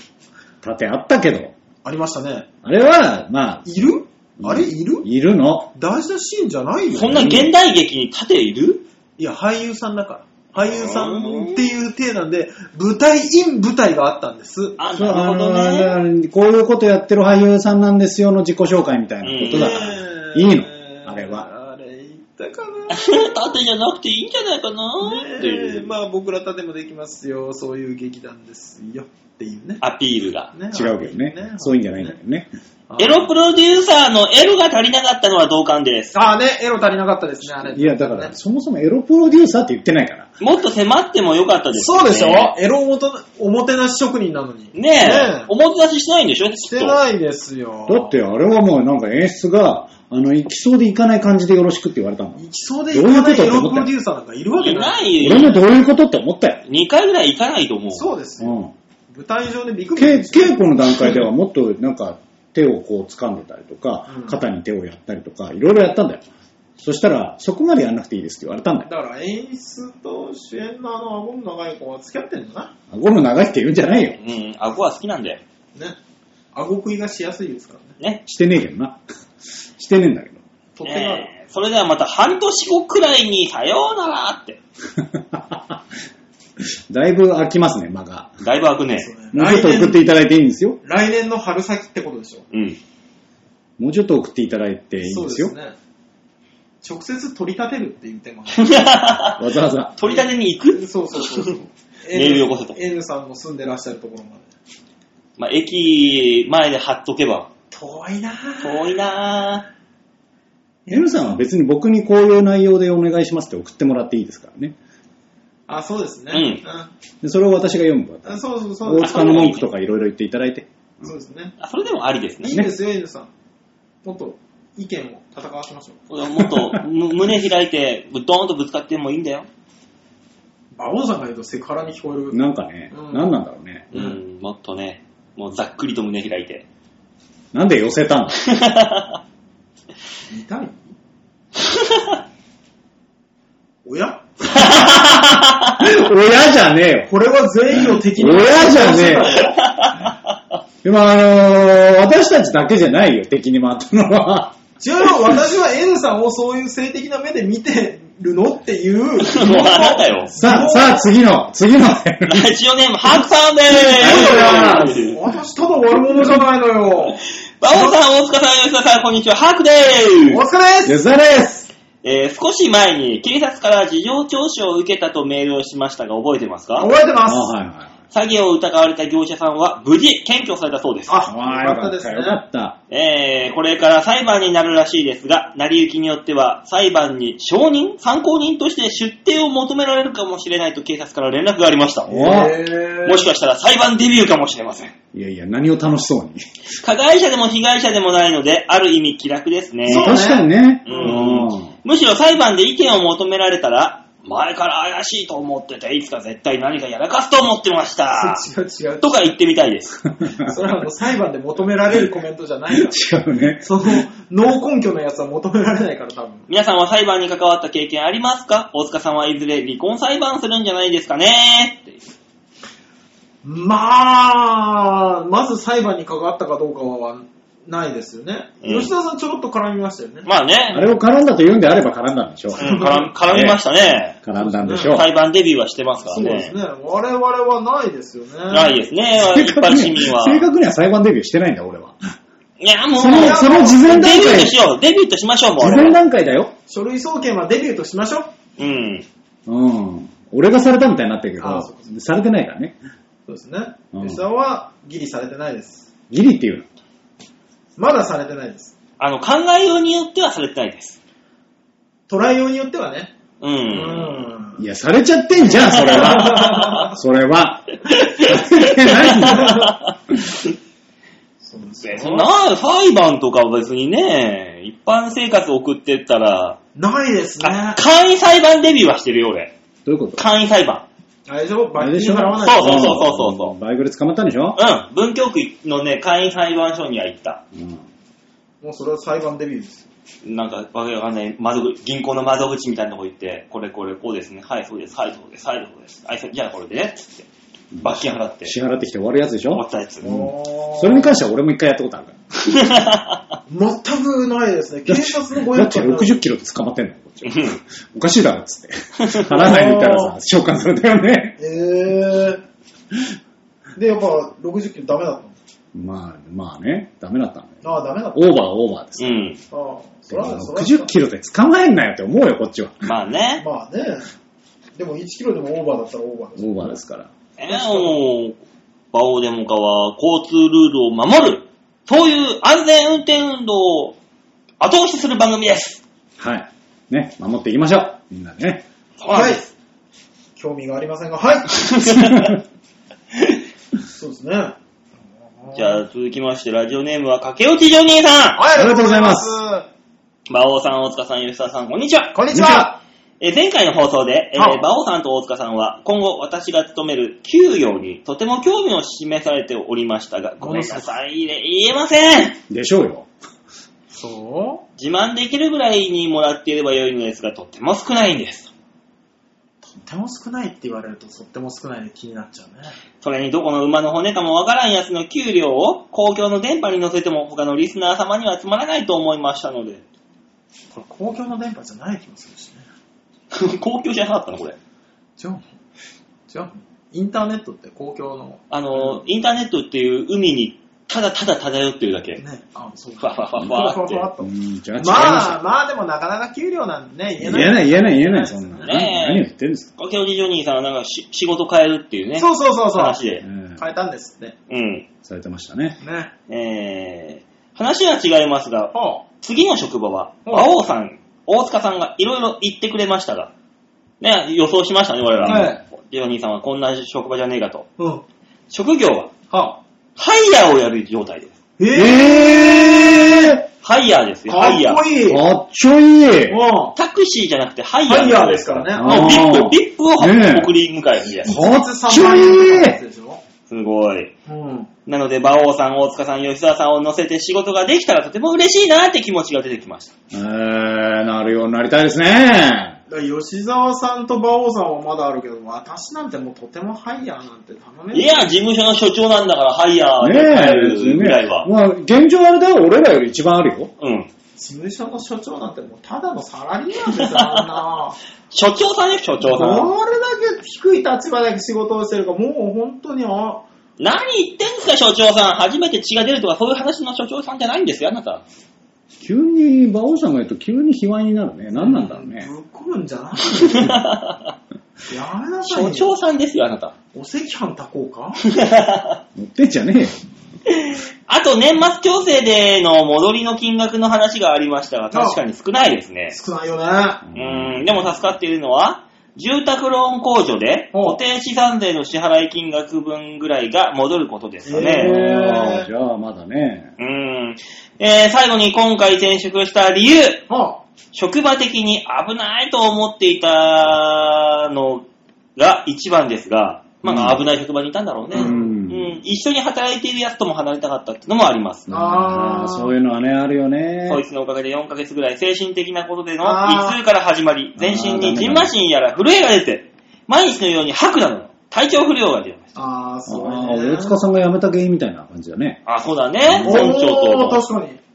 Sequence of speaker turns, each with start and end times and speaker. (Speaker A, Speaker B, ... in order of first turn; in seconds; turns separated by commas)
Speaker A: 0.6-1.5, Speaker B: 1.8-2.5, Speaker A: 2.6-5.7, Speaker B: 3.7-5.1, Speaker B: 5.7-7.4, Speaker C: 6.9-8.8, Speaker A: 7.0-7.5, Speaker B: 9.2-14.8, Speaker C: 10.7-11.7, Speaker C: 14.8-16.0, Speaker A: 14.9-21.5, Speaker C: 19.2-19.9, Speaker B: 19.4-23.6, Speaker C: 22.9-25.9, Speaker B: 25.0-29.8, Speaker C: 29.8-30.5, Speaker B: 30.5-32.2, Speaker A: 30.7-32.5, Speaker B: 32.9-33.3, Speaker C: 33.0-36.1, Speaker B: 36.1-38.3, Speaker A: 37.4-40.3, Speaker C: 40.4-42.5, Speaker B: 41.8-45.5, Speaker C: 44.7-47.0, Speaker B: 46.6-48.1, Speaker A: 47.9-52.4, Speaker B: 52.4-55.1, Speaker A: 52.9-53.9, Speaker C: 54.6-55.6, Speaker A: 55.2-56.6, Speaker C: 56.7-58.1, Speaker B: 57.9-58.6, Speaker A: 58.4-58.7, Speaker B: 59.1-61.1, Speaker A: 60.0-66.3, Speaker B: 64.1-64.4, Speaker A: 66.8-68.9, Speaker B: 68.8-72.7, Speaker A: 72.9-74.2, Speaker C: 74.2-75.4, Speaker B: 76.5-78.0, Speaker A: 78.3-79.0, Speaker A: 79.8-80.4, Speaker B: 80.8-81.3, Speaker C: 80.8-84.6, Speaker A: 85.0-85.8, Speaker A: 86.6-88.3, Speaker C: 88.4-89.1, Speaker B: 88.9-90.0, Speaker A: 89.3-90.8, Speaker B: 90.8-92.5, Speaker C: 92.5-92.8, Speaker A: 93.8-95.5, Speaker B: 95.0-95.8, Speaker B: 96.8-98.9, Speaker C: 98.5-99.4, Speaker A: 99.4-100.0, Speaker C: 100.0-101.5, Speaker B: 100.0-104.5, Speaker C: 102.1-102.8, Speaker C: 105.4-107.5, Speaker B: 107.7-108.9, Speaker C: 108.6-109.7, Speaker B: 110.9-111.3, Speaker A: 110.9-114.8, Speaker B: 115.7-116.9, Speaker C: 116.3-116.6, Speaker A: 117.2-121.1, Speaker B: 118.2-119.5, Speaker C: 119.0-119.7, Speaker B: 121.0-121.5, Speaker C: 121.6-122.6, Speaker B: 122.4-123.3, Speaker B: 124.0-126.0, Speaker C: 126.1-129.5, Speaker A: 126.4-126.8, Speaker B: 130.7-132.4, Speaker A: 132.3-133.9, Speaker B: 132.9-133.3, Speaker B: 133.9-134.2, Speaker C: 133.9-136.7, Speaker A: 137.5-138.4, Speaker C: 138.4-139.2, Speaker B: 140.3-140.8, Speaker C: 141.7-142.0, Speaker B: 143.8-144.8, Speaker C: 144.6-145.8, Speaker A: 144.8-145.1, Speaker A: 145.8-147.1, Speaker B: 147.1-149.6, Speaker A: 147.7-149.4, Speaker C: 149.5-150.1, Speaker A: 150.8-154.6, Speaker B: 154.8-161.1, Speaker C: 159.2-160.3, Speaker A: 160.3-162.5, Speaker C: 162.3-165.2, Speaker A: 163.9-165.1, Speaker B: 164.0-168.0, Speaker C: 167.6-170.4, Speaker B: 170.2-171.0, Speaker A: 170.9-171.7, Speaker C: 172.0-176.9, Speaker B: 176.8-177.5, Speaker A: 177.3-177.9, Speaker C: 178.1-181.2, Speaker B: 181.1-182.4, Speaker A: 181.3-182.8, Speaker C: 182.9-192.1, Speaker A: 192.1-192.6, Speaker B: 192.1-193.3, Speaker C: 193.1-194.9, Speaker A: 195.1-196.4, Speaker C: 196.8-200.2, Speaker B: 199.9-201.4, Speaker A: 200.0-201.7, Speaker C: 200.9-208.4, Speaker B: 208.1-209.2, Speaker C: 209.0-209.9, Speaker A: 210.2-210.5, Speaker B: 210.4-213.0, Speaker A: 212.7-214.0, Speaker B: 213.6-216.5, Speaker C: 216.5-222.1, Speaker B: 223.4-230.3, Speaker C: 228.6-228.9, Speaker C: 230.3-230.9, Speaker A: 230.7-232.8, Speaker B: 232.6-233.1, Speaker C: 232.6-234.2, Speaker A: 233.3-233.6, Speaker A: 234.2-235.1, Speaker B: 234.3-235.0, Speaker C: 234.7-236.6, Speaker B: 236.1-238.8, Speaker C: 238.5-240.5, Speaker A: 239.2-242.1, Speaker C: 242.6-246.0, Speaker A: 243.0-244.6, Speaker B: 243.1-244.2, Speaker A: 245.6-246.5, Speaker B: 246.7-248.3, Speaker C: 248.6-249.1, Speaker A: 249.5-252.8, Speaker B: 251.4-251.9, Speaker B: 253.3-255.9, Speaker A: 253.9-254.2, Speaker A: 256.1-256.7, Speaker B: 257.8-258.8, Speaker C: 259.0-261.0, Speaker B: 262.1-263.1, Speaker C: 263.4-264.3, Speaker B: 263.7-264.6, Speaker A: 264.6-269.7, Speaker B: 265.7-266.9, Speaker C: 265.8-266.7, Speaker C: 267.9-269.9, Speaker B: 269.3-269.7, Speaker B: 271.4-272.3, Speaker C: 271.8-276.6, Speaker B: 276.8-277.8, Speaker C: 277.4-279.5, Speaker A: 279.9-280.2, Speaker C: 280.2-280.9, Speaker B: 281.3-283.0, Speaker A: 281.8-284.6, Speaker C: 282.4-283.5, Speaker C: 284.6-287.4, Speaker A: 287.5-287.9, Speaker B: 288.6-289.9, Speaker C: 290.2-297.3, Speaker A: 297.7-302.1, Speaker C: 297.8-298.5, Speaker C: 299.5-300.1, Speaker B: 300.0-301.2, Speaker C: 302.4-303.2, Speaker B: 303.5-306.2, Speaker A: 304.9-311.4, Speaker C: 307.3-307.6, Speaker C: 309.0-309.3, Speaker B: 309.4-310.1, Speaker B: 311.4-312.4, Speaker B: 313.8-315.4, Speaker A: 315.7-317.6, Speaker B: 317.6-318.3, Speaker A: 318.1-319.3, Speaker C: 319.0-319.4, Speaker B: 319.5-320.9, Speaker A: 320.1-322.9, Speaker C: 322.8-323.4, Speaker B: 323.4-324.1, Speaker B: 324.8-326.8, Speaker A: 326.4-327.1, Speaker C: 327.4-328.4, Speaker B: 327.5-328.0, Speaker C: 328.9-334.0, Speaker C: 334.6-335.8, Speaker A: 336.2-338.6, Speaker C: 339.0-339.5, Speaker B: 339.1-339.5, Speaker B: 340.4-341.9, Speaker C: 341.6-342.4, Speaker A: 342.0-342.3, Speaker B: 343.9-344.6, Speaker B: 345.4-345.8, Speaker C: 345.6-348.4, Speaker B: 348.4-349.7, Speaker A: 348.5-349.4, Speaker C: 350.3-352.2, Speaker B: 352.1-352.8, Speaker A: 352.3-352.7, Speaker C: 353.2-362.4, Speaker B: 354.4-354.6, Speaker B: 360.4-361.0, Speaker A: 362.5-363.1, Speaker B: 363.9-364.6, Speaker C: 364.8-368.5, Speaker B: 369.7-372.8, Speaker C: 373.0-379.8, Speaker B: 380.7-382.6, Speaker C: 383.3-384.6, Speaker B: 385.2-385.5, Speaker B: 386.3-389.0, Speaker C: 388.5-392.2, Speaker B: 392.2-398.7, Speaker C: 393.0-394.1, Speaker A: 394.2-395.4, Speaker A: 397.2-399.7, Speaker C: 398.6-399.3, Speaker C: 399.8-403.2, Speaker B: 402.2-403.0, Speaker A: 403.2-403.6, Speaker B: 403.6-404.4, Speaker C: 404.5-404.9, Speaker A: 405.0-405.8, Speaker B: 405.8-406.1, Speaker C: 406.3-413.3, Speaker B: 408.7-409.0, Speaker C: 414.0-417.7, Speaker A: 415.2-415.5, Speaker B: 415.2-415.6, Speaker B: 417.8-418.0, Speaker C: 418.5-419.1, Speaker B: 419.3-419.6, Speaker C: 420.0-421.4, Speaker B: 421.6-423.4, Speaker A: 421.7-423.4, Speaker C: 423.6-424.8, Speaker B: 424.3-425.2, Speaker A: 425.1-426.4, Speaker B: 426.3-426.8, Speaker C: 426.8-431.4, Speaker B: 427.9-429.3, Speaker A: 428.8-430.5, Speaker A: 431.2-432.8, Speaker B: 431.2-433.2, Speaker C: 433.5-434.1, Speaker B: 434.3-434.7, Speaker C: 434.9-439.9, Speaker A: 440.1-442.8, Speaker B: 442.9-448.2, Speaker C: 447.9-451.5, Speaker A: 450.0-453.7, Speaker C: 453.8-454.1, Speaker B: 454.4-458.0, Speaker C: 456.9-457.6, Speaker C: 458.3-459.7, Speaker B: 459.2-463.4, Speaker C: 463.8-468.2, Speaker A: 469.0-472.3, Speaker B: 471.5-473.7, Speaker C: 473.3-474.2, Speaker B: 474.9-475.9, Speaker C: 475.4-476.7, Speaker B: 476.9-478.2, Speaker C: 478.3-479.0, Speaker A: 479.1-480.0, Speaker C: 480.5-486.2, Speaker B: 484.9-485.2, Speaker B: 486.1-487.0, Speaker A: 487.0-487.8, Speaker C: 487.1-494.9, Speaker B: 490.7-491.0, Speaker B: 494.4-495.7, Speaker A: 494.7-496.7, Speaker C: 496.8-500.3, Speaker B: 500.3-500.6, Speaker C: 500.9-504.8, Speaker C: 505.4-511.7, Speaker A: 506.8-507.2, Speaker B: 508.1-508.5, Speaker A: 508.1-508.9, Speaker A: 511.7-514.0, Speaker B: 511.7-512.7, Speaker C: 513.9-522.5, Speaker B: 516.2-516.8, Speaker A: 517.6-518.5, Speaker B: 522.5-524.0, Speaker A: 523.1-525.6, Speaker C: 525.7-527.4, Speaker A: 526.2-526.7, Speaker B: 526.4-527.8